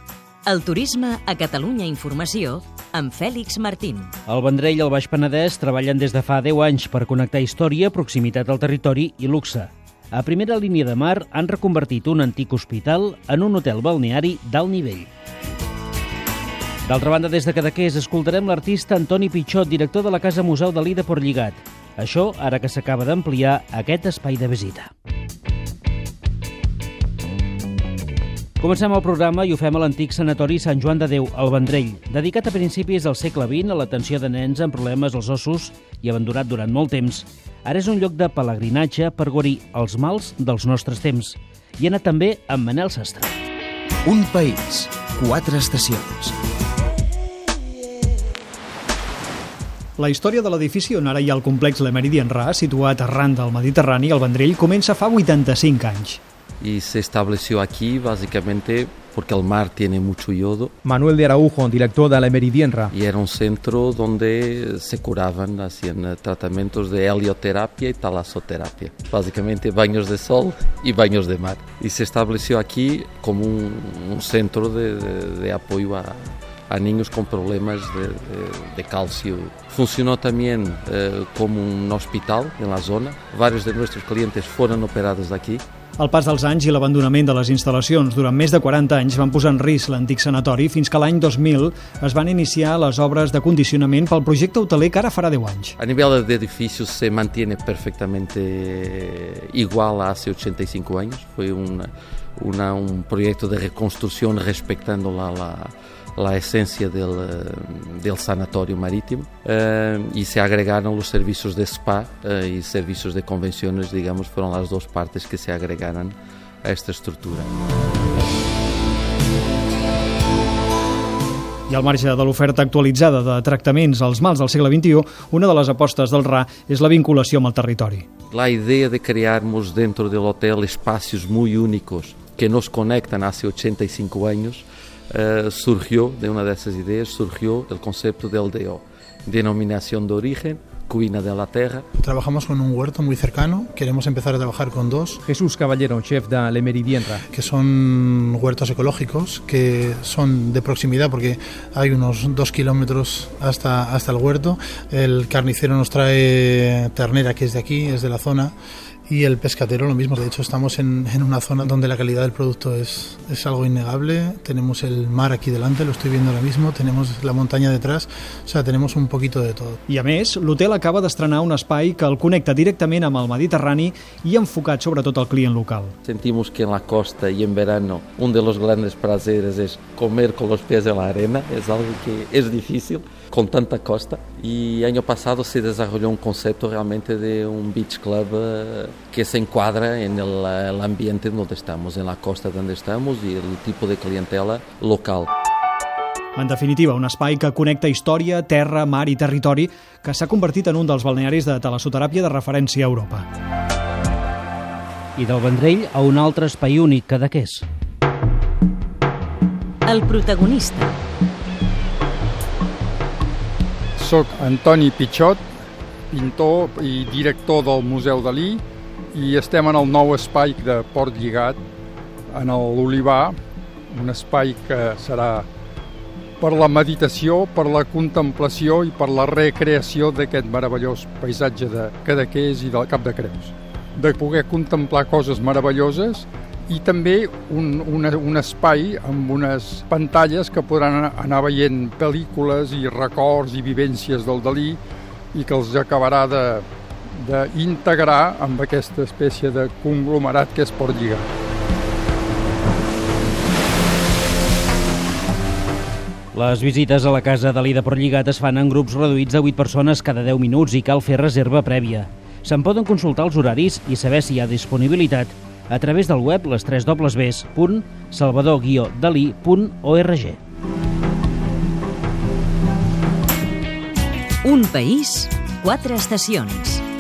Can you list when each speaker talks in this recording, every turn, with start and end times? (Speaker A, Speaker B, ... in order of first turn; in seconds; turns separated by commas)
Speaker A: 0.5-4.1, Speaker B: 4.3-15.1, Speaker B: 16.9-24.9, Speaker B: 28.6-43.3, Speaker C: 44.0-46.3, Speaker D: 50.0-56.2, Speaker E: 56.6-60.7, Speaker F: 60.8-62.9, Speaker E: 62.9-85.6, Speaker D: 86.0-95.8, Speaker E: 95.8-117.5, Speaker D: 121.7-128.1, Speaker E: 128.3-141.9, Speaker G: 142.0-145.2, Speaker F: 145.2-147.2, Speaker G: 147.3-158.5, Speaker G: 159.1-169.8, Speaker D: 169.9-175.9, Speaker E: 176.1-195.3, Speaker D: 196.4-203.2, Speaker B: 205.2-207.7, Speaker A: 209.9-210.9, Speaker H: 214.0-215.4, Speaker H: 216.1-221.6, Speaker H: 222.3-223.4, Speaker H: 223.9-225.5, Speaker H: 226.4-244.8, Speaker H: 245.3-251.3, Speaker B: 256.3-270.4, Speaker A: 274.4-276.9